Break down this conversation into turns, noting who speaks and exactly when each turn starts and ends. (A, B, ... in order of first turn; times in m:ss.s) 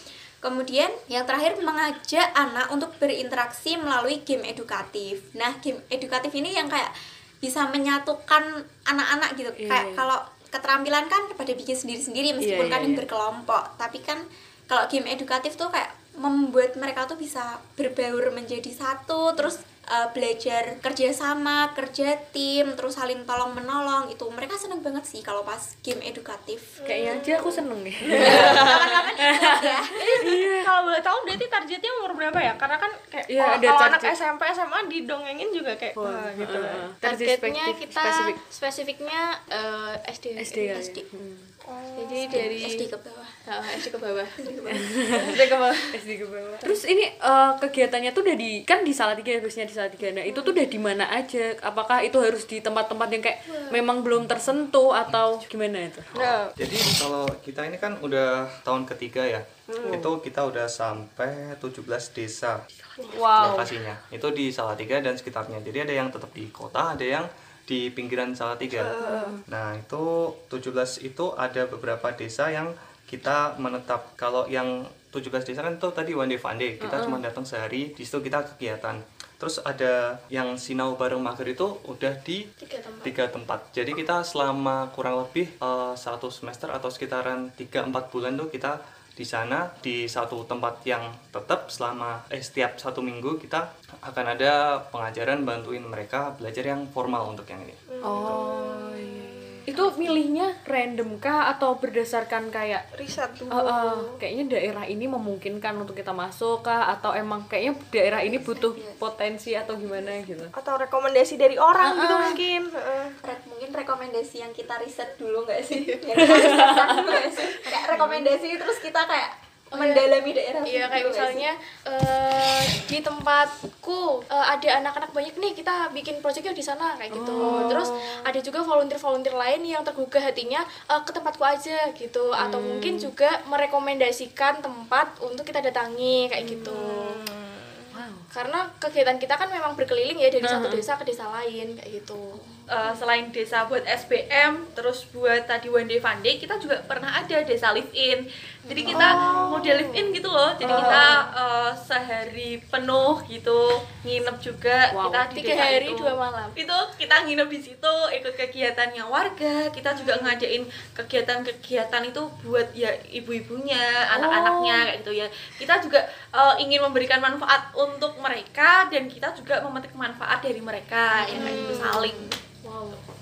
0:00.4-0:27.5 A
0:09.6-0:10.0 B
0:12.4-0:13.0 B
0:26.8-0:28.7 C
0:26.8-0:30.7 B
0:28.2-0:30.2 A
0:30.0-0:36.9 C
0:33.3-0:34.1 B
0:36.0-0:38.4 B
0:37.0-0:40.8 D
0:40.4-0:41.5 B
0:40.7-0:41.0 A
0:41.6-0:42.4 C
0:42.0-0:42.8 D
0:42.3-0:43.4 A
0:43.4-0:44.4 D
0:44.4-0:45.3 A
0:44.7-0:56.2 B
0:45.2-0:46.0 C
0:50.3-0:50.6 C
0:56.1-0:56.5 C
0:56.6-1:02.6 E
0:59.7-1:00.1 C
0:59.8-1:00.1 B
1:03.1-1:03.7 B
1:03.2-1:22.4 E
1:08.6-1:09.4 C
1:09.0-1:09.4 B
1:16.8-1:17.2 B
1:22.6-1:23.1 D
1:23.0-1:38.4 E
1:37.9-1:40.2 C
1:38.0-1:42.8 B
1:42.9-1:44.2 C
1:43.5-1:50.5 B
1:48.2-1:49.0 A
1:50.5-1:53.2 C
1:51.8-1:52.4 B
1:53.2-2:01.5 A
1:55.7-1:56.5 C
1:56.2-1:57.1 B
1:57.6-1:58.1 C
1:57.9-1:58.2 B
1:59.7-2:00.1 D
2:00.7-2:17.2 D
2:07.1-2:07.9 B
2:07.4-2:08.2 C
2:12.4-2:13.1 B
2:16.5-2:17.9 C
2:17.9-2:18.3 B
2:18.3-2:22.4 D
2:20.4-2:20.8 B
2:22.7-2:52.4 F
2:28.7-2:31.2 C
2:28.9-2:29.2 D
2:30.7-2:31.0 D
2:34.9-2:35.3 B
2:35.3-2:36.6 D
2:39.9-2:40.4 C
2:44.1-2:44.9 B
2:51.2-2:53.0 B
2:51.3-2:52.1 C